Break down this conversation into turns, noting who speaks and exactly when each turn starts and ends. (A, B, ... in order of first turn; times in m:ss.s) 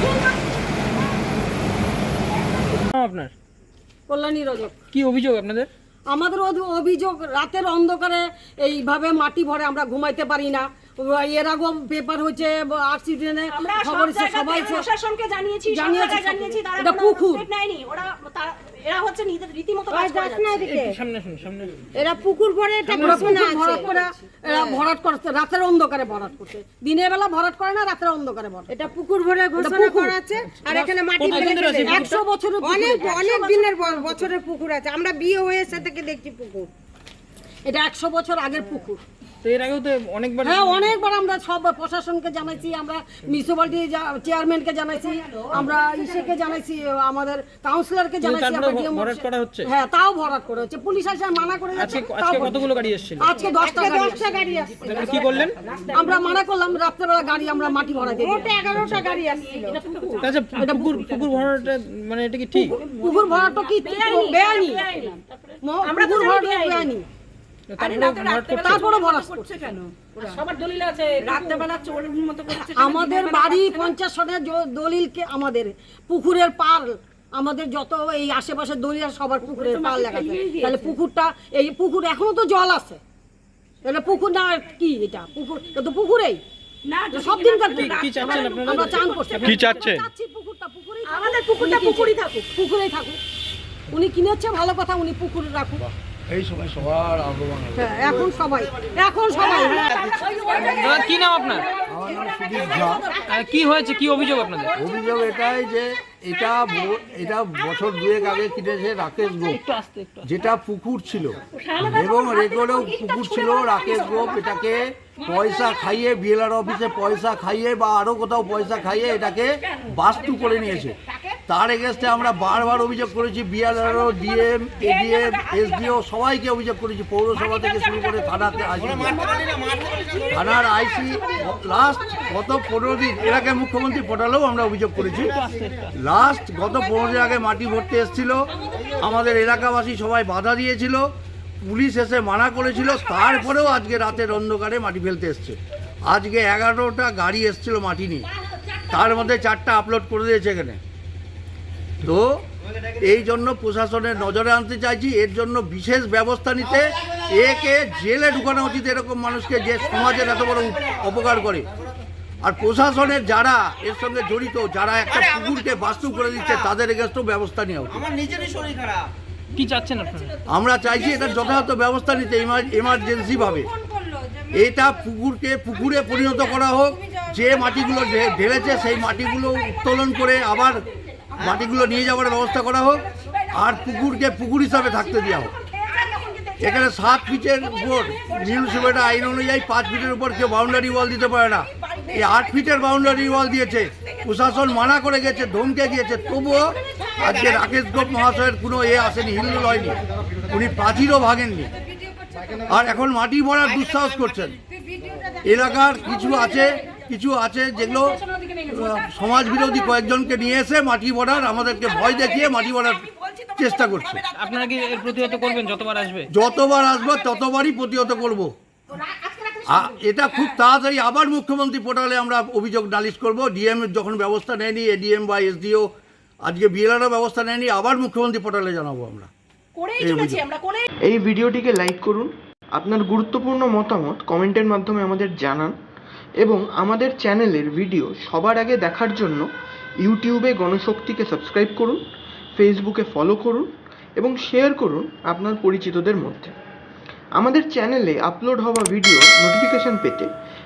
0:02.9-0:03.3 A
0:04.1-0:04.8 B
0:04.9-0:05.7 A
0:06.1-0:14.9 B
0:13.5-0:20.6 C
0:15.7-0:17.5 B
0:19.9-0:21.0 D
0:20.6-0:21.9 A
0:22.0-0:24.8 D
0:22.9-0:23.4 A
0:23.0-0:28.8 B
0:28.7-0:36.7 D
0:29.6-0:30.2 B
0:30.7-0:33.7 B
0:31.2-0:32.0 A
0:37.6-0:39.0 B
0:39.4-0:40.9 A
0:40.4-0:52.6 B
0:48.2-0:49.7 A
0:51.8-0:53.3 A
0:53.2-0:54.3 B
0:53.5-0:55.3 D
0:54.8-0:56.4 C
0:54.9-0:55.6 A
0:55.9-0:59.0 B
0:58.1-1:00.2 D
0:59.6-1:00.4 C
1:00.2-1:02.8 A
1:00.6-1:01.0 B
1:02.6-1:05.0 B
1:02.6-1:06.9 C
1:05.6-1:07.1 B
1:07.7-1:08.9 A
1:07.8-1:13.9 C
1:08.6-1:09.5 B
1:12.7-1:23.0 B
1:19.4-1:20.9 C
1:23.8-1:26.4 B
1:26.8-1:29.9 C
1:27.1-1:33.2 B
1:27.8-1:30.1 A
1:31.1-1:32.5 C
1:33.9-1:35.8 B
1:36.3-1:38.3 E
1:37.8-1:40.6 B
1:39.7-1:43.1 C
1:40.6-1:41.7 A
1:41.9-1:43.1 E
1:43.2-1:44.8 A
1:44.7-1:49.6 E
1:49.5-1:50.3 A
1:50.2-2:01.0 E
1:51.5-1:54.6 C
1:55.2-1:55.8 C
1:59.6-2:01.4 C
2:01.5-2:09.3 E
2:03.9-2:05.9 C
2:07.6-2:10.8 C
2:10.2-2:15.4 E
2:15.3-2:15.9 A
2:15.9-2:21.1 E
2:21.6-2:28.3 E
2:28.9-2:30.8 E
2:32.0-2:32.4 E
2:33.0-2:41.7 E
2:42.4-2:48.1 E
2:49.6-2:50.3 A
2:50.5-2:53.7 E
2:53.6-2:54.5 C
2:54.5-3:00.8 E
3:01.4-3:05.5 E
3:03.3-3:03.6 C
3:05.3-3:09.0 C
3:06.6-3:21.7 E
3:11.8-3:12.4 C
3:16.5-3:17.6 C
3:22.7-3:24.6 E
3:25.4-3:34.2 E
3:28.1-3:28.9 C
3:31.7-3:37.1 C
3:34.4-3:36.3 A
3:36.3-3:38.5 E
3:39.0-3:40.5 C
3:39.7-3:45.9 E
3:46.4-3:49.3 E
3:49.8-3:50.9 C
3:50.0-3:50.4 E
3:51.1-3:55.8 F
3:56.4-3:59.5 F
4:00.0-4:02.0 F
4:02.6-4:06.5 F
4:07.4-4:10.3 F